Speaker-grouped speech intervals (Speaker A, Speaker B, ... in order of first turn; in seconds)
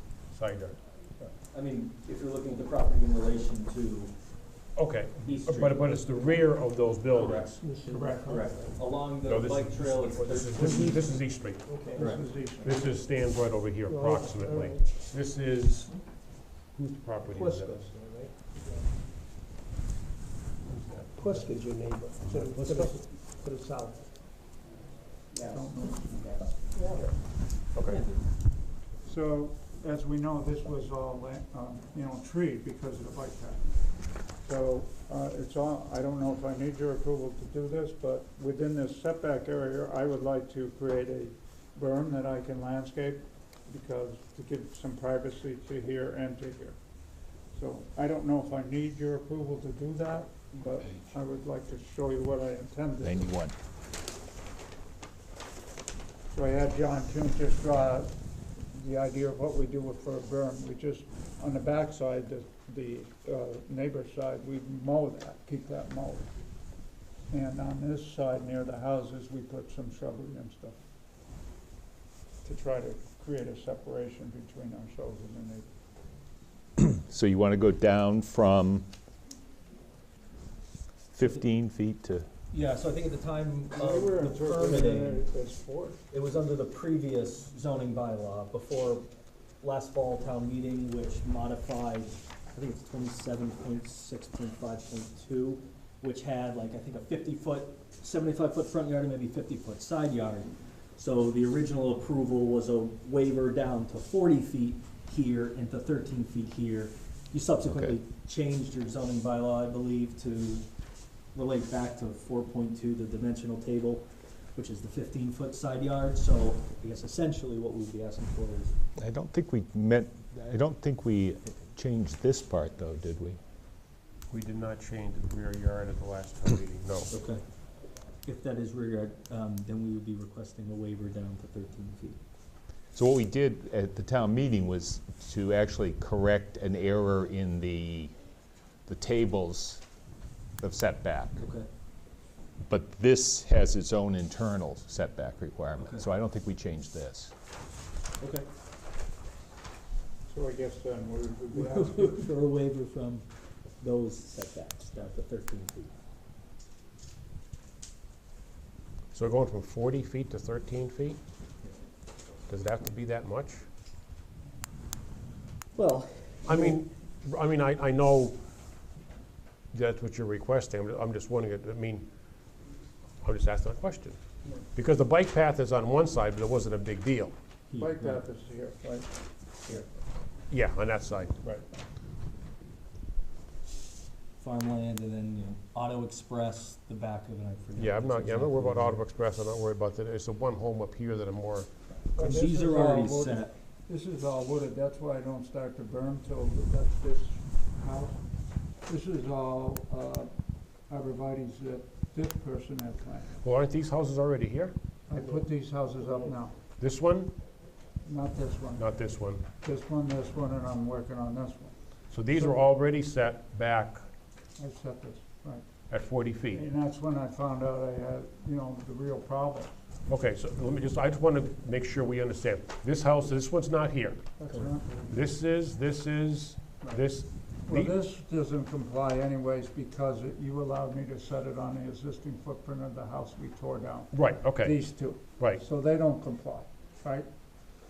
Speaker A: 0.3-0.8, 4.8-7.5, 9.2-16.0, 16.7-17.9, 20.7-21.7, 22.2-23.0, 27.7-28.0, 124.3-127.1, 159.1-161.2, 162.5-163.7, 166.4-168.4, 169.7-172.1, 173.2-174.2, 174.7-177.3, 180.5-181.4, 187.8-191.7, 203.4-204.7, 206.8-207.3, 208.8-209.4, 212.1-214.0, 215.9-216.7, 220.1-228.0, 234.1-235.6
Speaker B: 1.4-4.2, 5.2-6.4, 7.1-11.0, 11.9-12.2, 25.3-26.4, 27.8-28.2, 81.2-81.5, 82.5-85.3, 86.1-89.1, 89.6-110.7, 111.3-118.8, 127.1-127.4, 128.2-132.2, 141.4-141.7, 145.8-146.1, 148.2-148.5, 151.5-153.3, 153.8-155.9, 165.7-166.8, 177.7-178.2, 184.4-189.0, 192.2-193.5
Speaker C: 7.6-9.0, 10.6-11.1, 11.6-12.2, 13.9-14.8, 17.3-18.8, 21.1-24.1, 26.7-27.1, 205.1-206.3
Speaker D: 7.9-8.5, 11.9-12.9, 22.8-23.2, 25.4-26.6, 29.0-33.8, 34.4-46.8, 47.5-53.3, 56.3-66.3, 67.3-70.8, 72.4-75.7, 83.7-86.0, 150.3-152.3, 177.8-179.1, 192.1-198.2, 198.8-200.3, 200.8-203.3, 205.1-206.6, 208.0-208.9, 209.6-211.7, 212.3-212.6, 214.6-215.9, 216.5-219.7, 224.4-225.2, 226.8-237.3
Speaker E: 53.0-53.5, 76.8-78.9, 81.1-82.3, 107.7-108.0, 119.0-123.4, 132.9-138.1, 138.8-139.8, 140.6-141.4, 142.7-147.3